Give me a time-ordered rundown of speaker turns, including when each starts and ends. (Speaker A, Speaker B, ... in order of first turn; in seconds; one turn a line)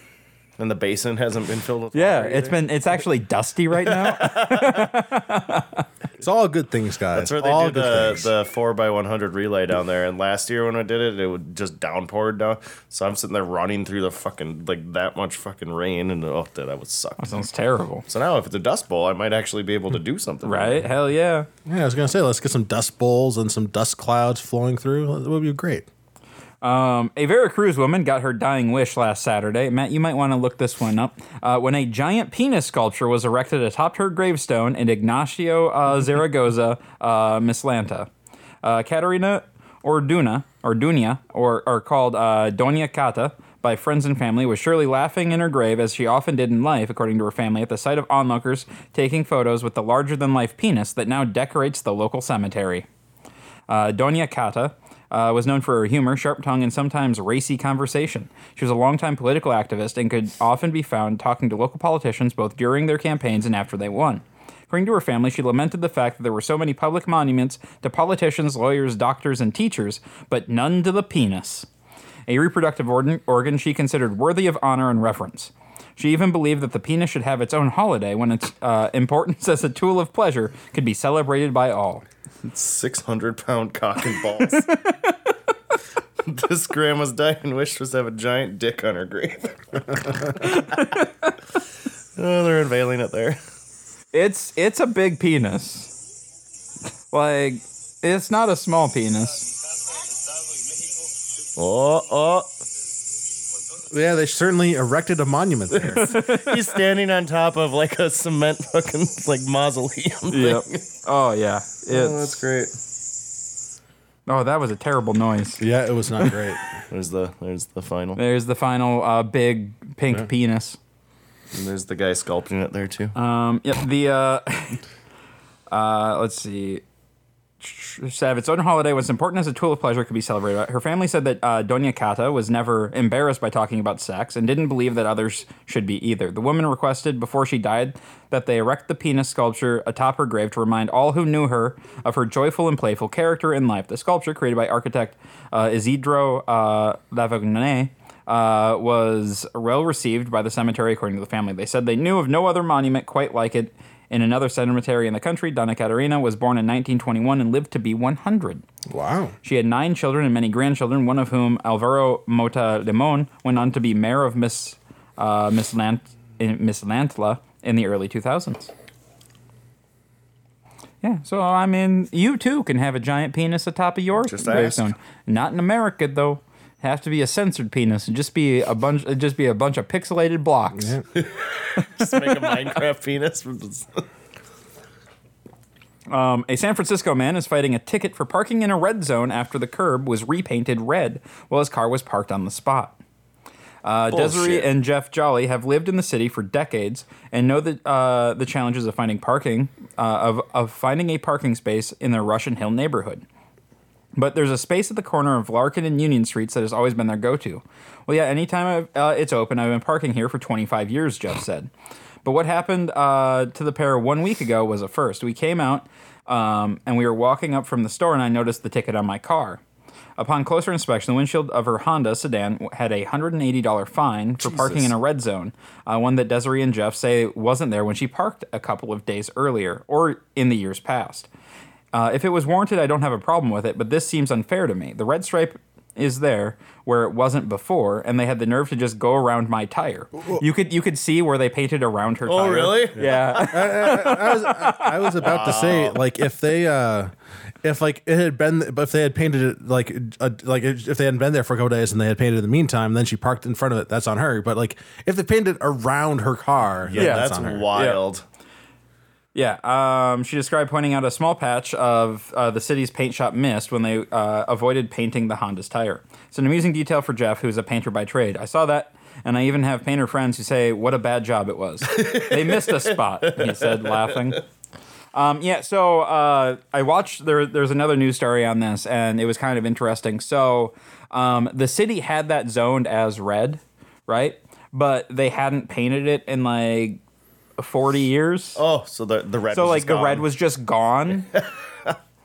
Speaker A: 0.6-2.6
Speaker B: 1.9-5.8
Speaker A: 3.8-4.9
Speaker C: 6.2-8.3
Speaker A: 7.1-17.4
Speaker B: 17.2-18.1
Speaker A: 18.1-20.9
Speaker B: 20.4-21.5
Speaker C: 21.7-25.9
Speaker B: 26.6-38.1
Speaker B: 38.6-52.9
Speaker B: 53.7-71.7
Speaker B: 72.3-82.0
Speaker A: 82.4-84.7
Speaker B: 84.5-85.2
Speaker A: 86.3-90.8
Speaker B: 90.4-91.3
Speaker A: 92.2-93.4
Speaker B: 94.1-95.9
Speaker B: 97.1-99.5
Speaker A: 101.6-102.5
Speaker C: 103.9-106.1
Speaker A: 105.7-110.8
Speaker B: 106.0-106.6
Speaker B: 110.3-112.4
Speaker A: 111.9-112.8
Speaker B: 114.3-115.6
Speaker C: 115.6-116.6
Speaker A: 116.9-118.2
Speaker B: 118.2-120.8
Speaker A: 121.5-123.1
Speaker B: 123.2-124.8
Speaker B: 125.7-126.8
Speaker B: 127.6-158.7
Speaker C: 158.9-159.3
Speaker B: 159.4-168.7
Speaker B: 171.0-181.0
Speaker A: 174.2-174.9
Speaker A: 181.2-184.1
Speaker B: 186.1-193.0
Speaker B: 193.8-203.2
Speaker A: 194.1-194.7
Speaker B: 204.2-211.7
Speaker B: 212.2-219.6
Speaker B: 220.2-231.3
Speaker A: 224.4-224.9
Speaker B: 231.9-245.2
Speaker A: 242.3-243.4
Speaker C: 243.0-247.1
Speaker A: 245.2-246.0
Speaker C: 247.6-257.7
Speaker A: 256.9-258.2
Speaker B: 257.0-258.0
Speaker B: 259.4-274.4
Speaker A: 271.9-274.2
Speaker B: 275.1-287.0
Speaker B: 287.6-288.6
Speaker A: 288.6-290.3
Speaker B: 289.5-291.3